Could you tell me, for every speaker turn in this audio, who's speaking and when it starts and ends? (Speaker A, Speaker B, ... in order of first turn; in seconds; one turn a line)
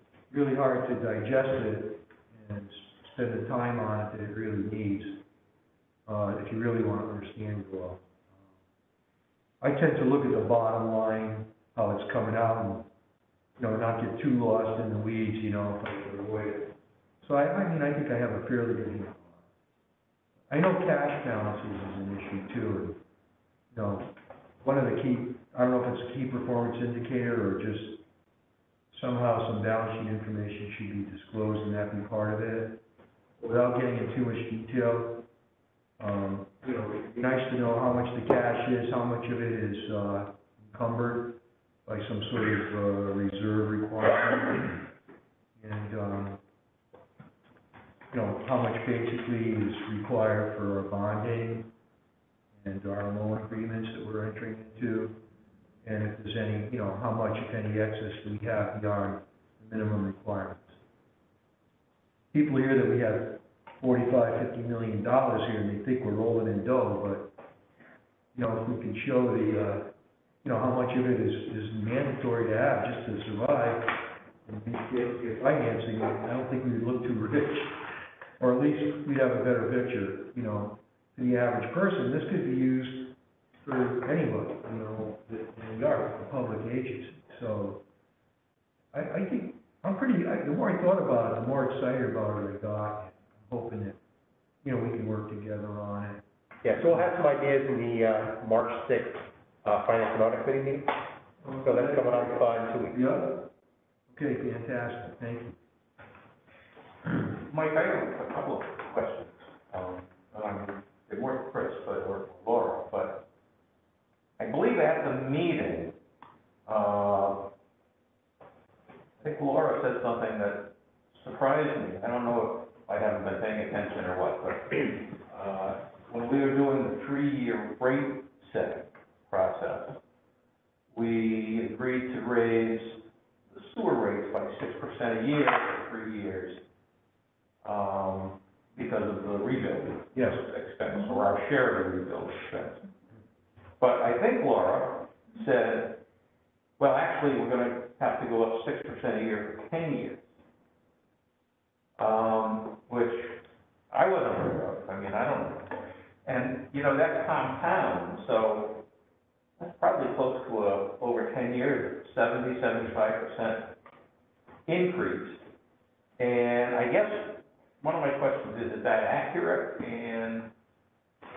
Speaker A: 0.3-5.2
Speaker A: 6.1-8.5
Speaker A: 9.6-12.9
Speaker A: 13.6-19.4
Speaker A: 20.5-23.0
Speaker A: 23.7-28.0
Speaker A: 28.9-32.8
Speaker A: 33.4-35.2
Speaker A: 36.0-44.9
Speaker A: 45.6-46.4
Speaker A: 48.1-51.7
Speaker A: 52.5-55.2
Speaker A: 55.8-60.8
Speaker A: 62.3-67.3
Speaker A: 68.3-69.9
Speaker A: 70.4-77.8
Speaker A: 78.4-87.8
Speaker A: 88.9-94.0
Speaker A: 94.6-96.2
Speaker B: 96.6-101.0
Speaker A: 101.4-103.5
Speaker B: 101.6-103.0
Speaker A: 104.1-105.5
Speaker C: 107.2-113.2
Speaker C: 114.4-116.0
Speaker C: 116.7-117.5
Speaker C: 119.2-130.0
Speaker C: 130.9-136.6
Speaker C: 137.6-142.9
Speaker A: 140.1-140.4
Speaker C: 143.8-146.0
Speaker C: 146.8-150.3
Speaker C: 152.0-158.8
Speaker C: 159.6-163.7
Speaker C: 164.7-165.4
Speaker C: 166.2-170.5